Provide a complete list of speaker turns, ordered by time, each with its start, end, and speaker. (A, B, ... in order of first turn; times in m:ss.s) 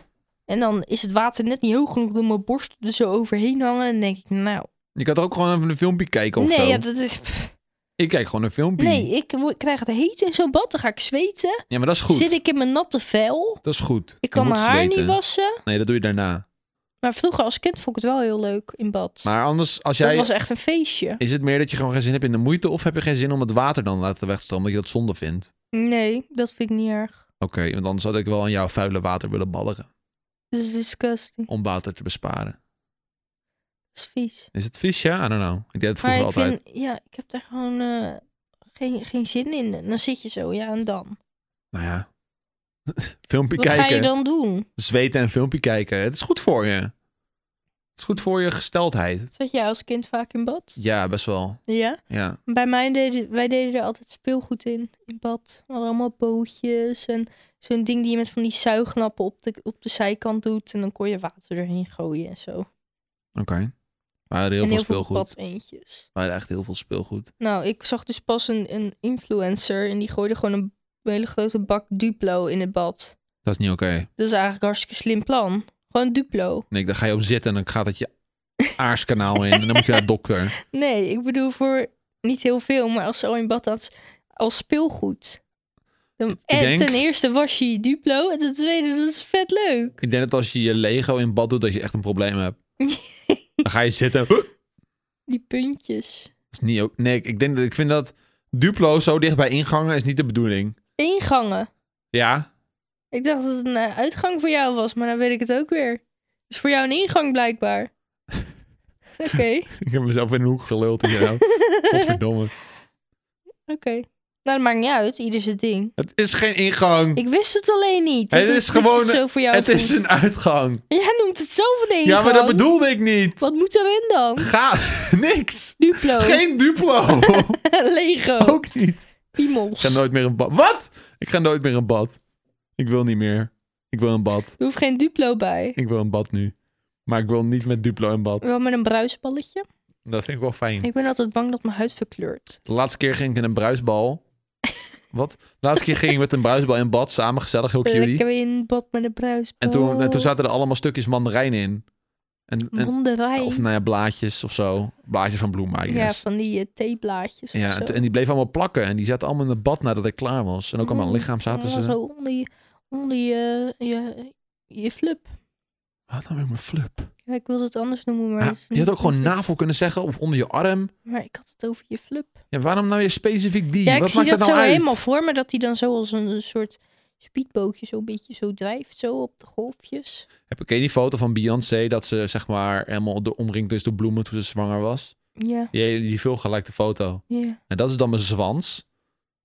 0:00.5-0:04.7 A
0:05.0-0:06.8 B
0:06.4-0:07.5 A
0:08.0-0:09.1 B
0:08.8-0:13.6 A
0:11.7-0:12.3 B
0:13.6-0:16.4 B
0:14.2-0:15.6 A
0:17.0-0:19.3 A
0:19.2-0:20.3 B
0:20.0-0:21.2 A
0:21.2-0:25.5 B
0:25.7-0:27.2 A
0:27.4-0:29.9 B
0:30.5-0:31.5 A
0:31.5-0:32.6 B
0:33.9-0:34.5 A
0:34.5-0:36.6 B
0:36.0-0:38.2 A
0:38.8-0:41.2 A
0:41.7-0:42.1 B
0:42.9-0:44.1 B
0:43.6-0:44.6 A
0:44.8-0:46.9 B
0:48.0-0:49.3 B
0:49.3-0:50.8 A
0:50.8-0:52.4 B
0:51.7-1:02.7 A
1:03.4-1:03.7 B
1:04.3-1:05.3 B
1:04.6-1:06.1 A
1:06.1-1:07.3 B
1:07.4-1:13.2 A
1:13.4-1:14.1 B
1:14.2-1:16.6 A
1:16.7-1:18.1 B
1:18.8-1:20.5 B
1:19.5-1:20.0 A
1:20.7-1:25.4 A
1:26.2-1:30.0 A
1:26.5-1:27.0 B
1:30.0-1:32.6 B
1:32.8-1:33.6 A
1:33.6-1:34.5 B
1:35.3-1:36.3 A
1:36.5-1:40.8 B
1:41.0-1:41.7 A
1:42.1-1:42.5 B
1:43.1-1:47.9 A
1:49.2-1:49.7 A
1:49.8-1:52.5 B
1:51.1-1:52.2 A
1:53.7-1:56.0 A
1:56.0-1:57.2 B
1:57.1-2:00.0 A
1:58.3-2:00.8 B
2:00.9-2:02.7 A
2:02.0-2:03.4 B
2:03.4-2:04.5 A
2:04.4-2:07.6 B
2:05.8-2:06.4 A
2:07.1-2:08.6 A
2:08.4-2:09.0 B
2:09.3-2:10.0 A
2:09.8-2:12.2 B
2:12.8-2:14.5 B
2:14.6-2:15.8 A
2:15.8-2:16.5 B
2:17.0-2:18.4 B
2:18.4-2:19.6 A
2:20.0-2:20.9 B
2:20.8-2:22.6 A
2:22.6-2:24.2 B
2:25.1-2:28.2 B
2:27.8-2:30.3 A
2:29.6-2:31.8 B
2:32.5-2:36.2 B
2:32.7-2:33.7 A
2:35.9-2:38.0 A
2:37.5-2:42.0 B
2:40.8-2:45.3 A
2:46.1-2:47.1 B
2:47.3-2:49.4 A
2:48.4-2:50.9 B
2:51.0-2:52.4 A
2:52.5-2:55.0 B
2:53.8-3:00.2 A
3:00.5-3:05.1 B
3:05.4-3:05.7 A
3:05.7-3:08.8 B
3:07.3-3:07.6 A